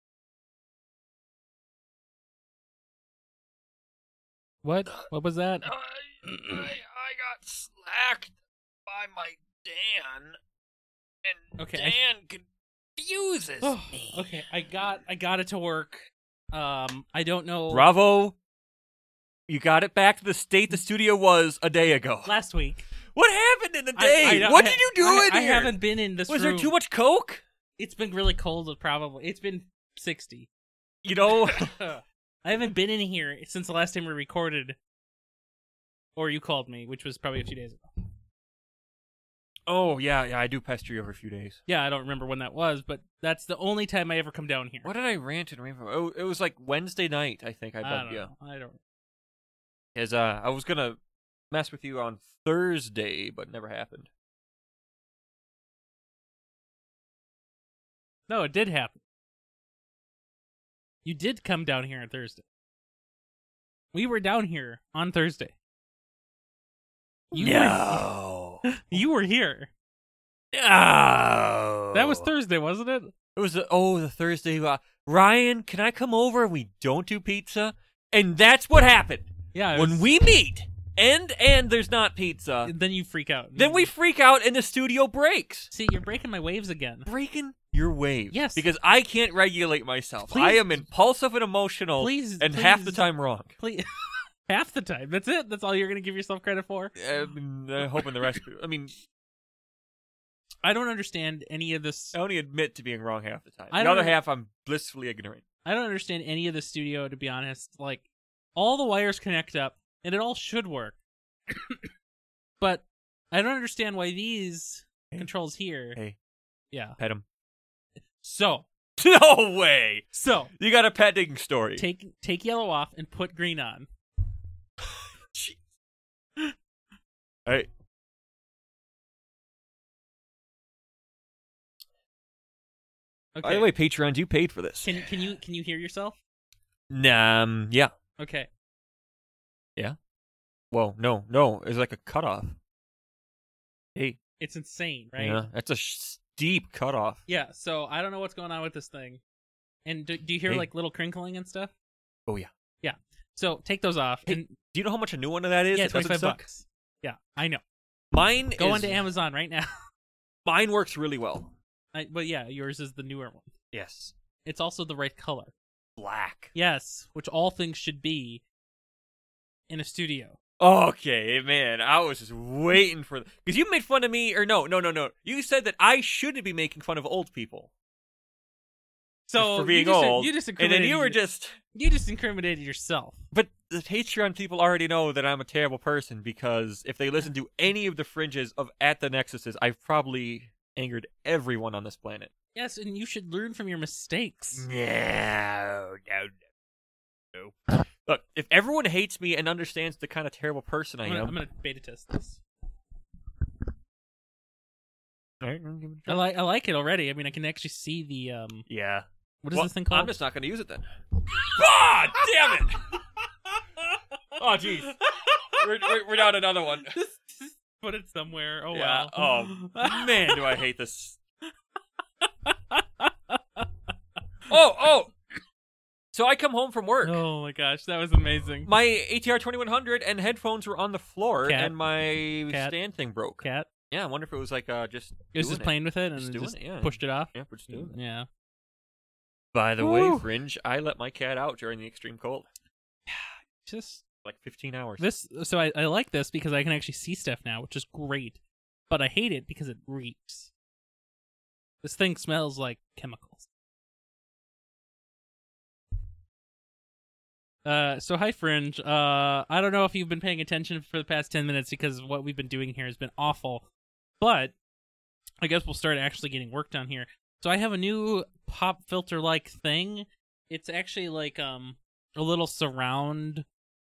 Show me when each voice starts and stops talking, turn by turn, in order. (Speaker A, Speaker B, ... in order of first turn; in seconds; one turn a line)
Speaker A: 4.6-5.7
Speaker B: 5.7-8.3
Speaker A: 6.3-6.6
Speaker B: 8.9-10.4
Speaker B: 11.2-12.4
Speaker A: 11.6-12.0
Speaker B: 13.0-14.2
Speaker A: 13.6-17.9
Speaker B: 17.7-18.4
Speaker B: 19.5-22.3
Speaker A: 22.2-22.9
Speaker B: 23.1-25.7
Speaker A: 23.9-26.7
Speaker B: 26.3-27.4
Speaker A: 27.8-30.5
Speaker B: 31.0-31.8
Speaker A: 31.4-34.8
Speaker A: 36.1-37.9
Speaker B: 39.7-41.6
Speaker A: 41.7-44.9
Speaker B: 44.8-48.3
Speaker A: 47.8-48.8
Speaker B: 49.9-51.0
Speaker B: 51.5-54.1
Speaker A: 58.3-59.0
Speaker A: 61.0-62.4
Speaker A: 63.9-65.5
Speaker B: 67.3-69.0
Speaker A: 67.3-68.1
Speaker A: 68.6-69.7
Speaker B: 70.5-72.3
Speaker A: 71.9-73.1
Speaker B: 73.3-82.7
Speaker A: 79.5-80.1
Speaker A: 82.6-83.9
Speaker B: 83.5-85.7
Speaker A: 85.7-87.1
Speaker B: 87.0-93.5
Speaker A: 88.3-88.7
Speaker A: 90.3-90.8
Speaker A: 92.0-93.0
Speaker A: 93.6-97.0
Speaker B: 97.0-98.9
Speaker A: 100.6-102.2
Speaker B: 102.1-105.4
Speaker A: 103.7-104.2
Speaker A: 105.6-111.0
Speaker A: 111.5-111.9
Speaker A: 112.6-116.0
Speaker A: 116.7-117.0
Speaker B: 117.0-117.2
Speaker A: 118.2-118.7
Speaker B: 119.0-121.9
Speaker A: 120.1-120.5
Speaker A: 121.8-123.9
Speaker B: 125.3-125.6
Speaker A: 133.3-133.7
Speaker B: 133.4-135.1
Speaker A: 134.8-136.2
Speaker B: 136.9-137.9
Speaker A: 138.2-138.5
Speaker B: 140.7-142.6
Speaker A: 144.4-145.4
Speaker B: 145.2-147.2
Speaker A: 147.3-149.2
Speaker A: 149.8-151.7
Speaker A: 152.8-154.5
Speaker B: 154.3-156.4
Speaker A: 155.7-157.6
Speaker B: 158.1-159.0
Speaker A: 158.6-159.7
Speaker B: 160.4-161.5
Speaker A: 161.9-163.5
Speaker B: 163.7-164.1
Speaker A: 164.4-165.5
Speaker B: 166.0-166.5
Speaker A: 166.5-168.4
Speaker A: 169.7-170.3
Speaker B: 170.6-177.7
Speaker A: 179.3-181.2
Speaker B: 179.3-181.6
Speaker A: 181.7-183.2
Speaker B: 183.3-192.3
Speaker A: 192.5-194.7
Speaker B: 194.5-196.4
Speaker B: 197.3-201.4
Speaker A: 201.0-202.4
Speaker B: 205.4-206.2
Speaker A: 206.1-208.7
Speaker B: 208.7-210.8
Speaker A: 209.4-210.1
Speaker B: 211.5-212.9
Speaker A: 213.2-215.6
Speaker B: 214.4-214.9
Speaker B: 215.6-216.9
Speaker A: 216.9-220.6
Speaker B: 218.7-221.2
Speaker A: 222.2-223.7
Speaker B: 224.5-225.1
Speaker B: 226.1-227.2
Speaker A: 227.0-228.7
Speaker B: 228.7-237.9
Speaker A: 231.4-231.8
Speaker A: 232.5-232.7
Speaker A: 233.4-233.7
Speaker A: 235.3-238.3
Speaker B: 239.5-242.5
Speaker A: 239.8-240.2
Speaker A: 243.1-244.0
Speaker B: 244.2-245.1
Speaker A: 245.0-250.5
Speaker A: 251.8-253.5
Speaker A: 257.6-263.7
Speaker A: 264.2-264.5
Speaker A: 265.4-273.4